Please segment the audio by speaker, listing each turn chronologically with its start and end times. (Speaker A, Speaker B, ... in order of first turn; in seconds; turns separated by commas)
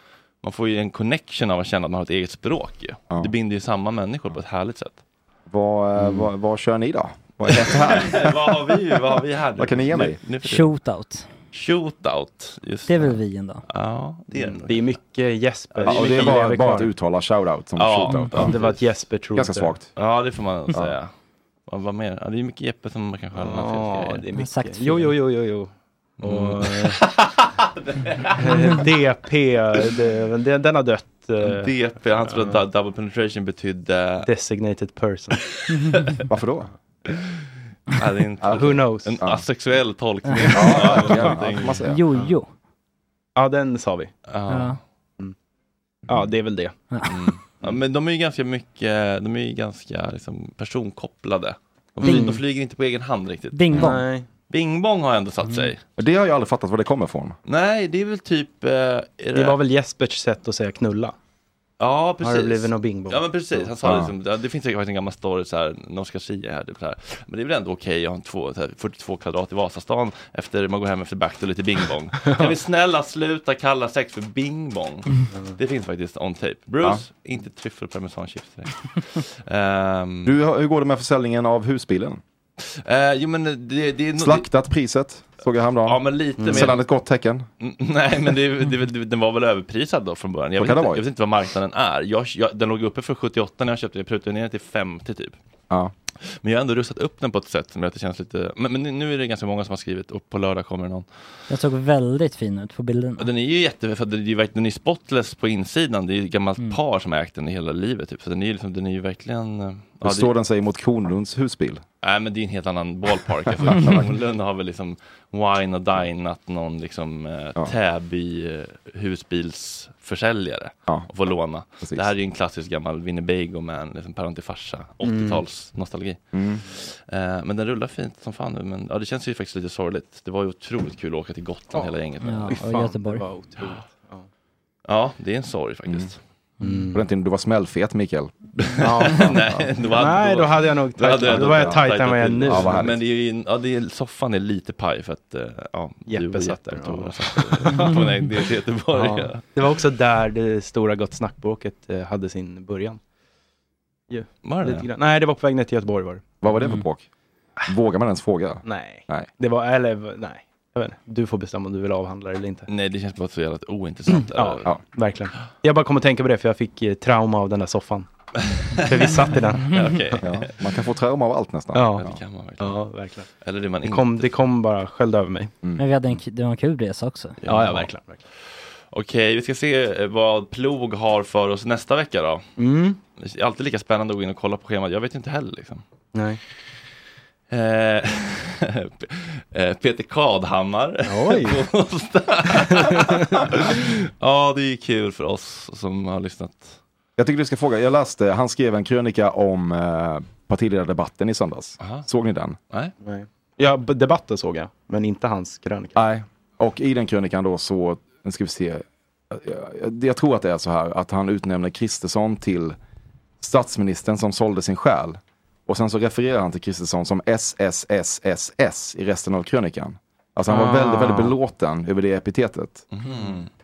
Speaker A: 0.4-5.0, Speaker B: 5.5-8.5, Speaker A: 7.5-10.7, Speaker B: 9.6-10.2, Speaker C: 10.4-11.3, Speaker A: 11.5-14.9, Speaker C: 12.9-13.6, Speaker D: 14.3-16.9, Speaker A: 15.7-16.4, Speaker B: 15.8-18.6, Speaker A: 17.8-18.8, Speaker D: 18.3-19.7, Speaker B: 19.3-19.9, Speaker A: 19.9-21.1, Speaker A: 21.7-24.2, Speaker D: 23.3-27.0, Speaker C: 24.3-25.1, Speaker A: 26.2-28.8, Speaker D: 28.4-32.6, Speaker A: 31.4-34.3, Speaker D: 34.2-35.4, Speaker A: 35.5-36.1, Speaker B: 36.3-36.7, Speaker A: 37.9-41.8, Speaker B: 38.4-39.4, Speaker D: 38.5-39.1, Speaker C: 40.2-40.7, Speaker B: 40.5-42.0, Speaker C: 41.8-42.5, Speaker D: 43.4-44.1, Speaker A: 44.3-44.8, Speaker C: 44.5-44.8, Speaker D: 46.1-46.9, Speaker C: 46.9-47.2, Speaker A: 47.0-53.9, Speaker D: 52.0-52.4, Speaker C: 52.0-52.3, Speaker C: 53.5-54.1, Speaker D: 53.7-54.3, Speaker A: 54.5-55.8, Speaker C: 55.4-55.7, Speaker B: 56.0-57.4, Speaker A: 57.5-59.6, Speaker D: 59.3-61.1, Speaker A: 61.8-80.3, Speaker D: 62.2-63.7, Speaker B: 63.8-64.1, Speaker B: 80.2-82.2, Speaker A: 82.6-84.5, Speaker B: 84.2-87.5, Speaker A: 85.8-86.8, Speaker D: 86.4-86.7, Speaker A: 87.6-95.4, Speaker B: 90.6-91.0, Speaker A: 96.4-101.0, Speaker C: 101.5-103.3, Speaker A: 103.2-110.3, Speaker B: 110.0-111.8, Speaker A: 112.0-126.2, Speaker B: 113.7-114.0, Speaker D: 125.0-125.4, Speaker B: 126.3-126.6, Speaker A: 126.8-132.6, Speaker C: 132.2-133.2, Speaker D: 132.5-134.2, Speaker A: 134.9-136.2, Speaker D: 136.6-137.0, Speaker B: 136.9-138.3, Speaker A: 138.6-149.4, Speaker D: 138.8-142.8, Speaker B: 141.3-141.8, Speaker B: 142.4-143.0, Speaker D: 146.1-148.0, Speaker D: 148.9-153.0, Speaker D: 154.1-156.2, Speaker A: 154.4-154.9, Speaker B: 156.4-157.1, Speaker B: 157.7-159.3, Speaker D: 158.6-162.7, Speaker A: 162.7-164.7, Speaker D: 164.1-168.1, Speaker A: 168.5-170.5, Speaker D: 168.8-170.2, Speaker B: 170.2-172.1, Speaker D: 171.7-172.1, Speaker A: 172.0-172.8, Speaker D: 172.6-173.3, Speaker A: 173.4-174.4, Speaker D: 173.8-175.5, Speaker C: 175.8-177.4, Speaker D: 177.4-178.2, Speaker A: 177.5-177.9, Speaker A: 178.9-182.5, Speaker D: 182.6-183.0, Speaker A: 183.2-185.8, Speaker D: 186.1-186.4, Speaker A: 187.5-196.8, Speaker D: 191.0-191.6, Speaker D: 192.9-193.2, Speaker B: 197.2-202.6, Speaker A: 201.8-202.1, Speaker D: 203.0-206.0, Speaker B: 205.9-212.8, Speaker B: 213.4-222.9, Speaker D: 220.5-221.3, Speaker A: 222.9-223.5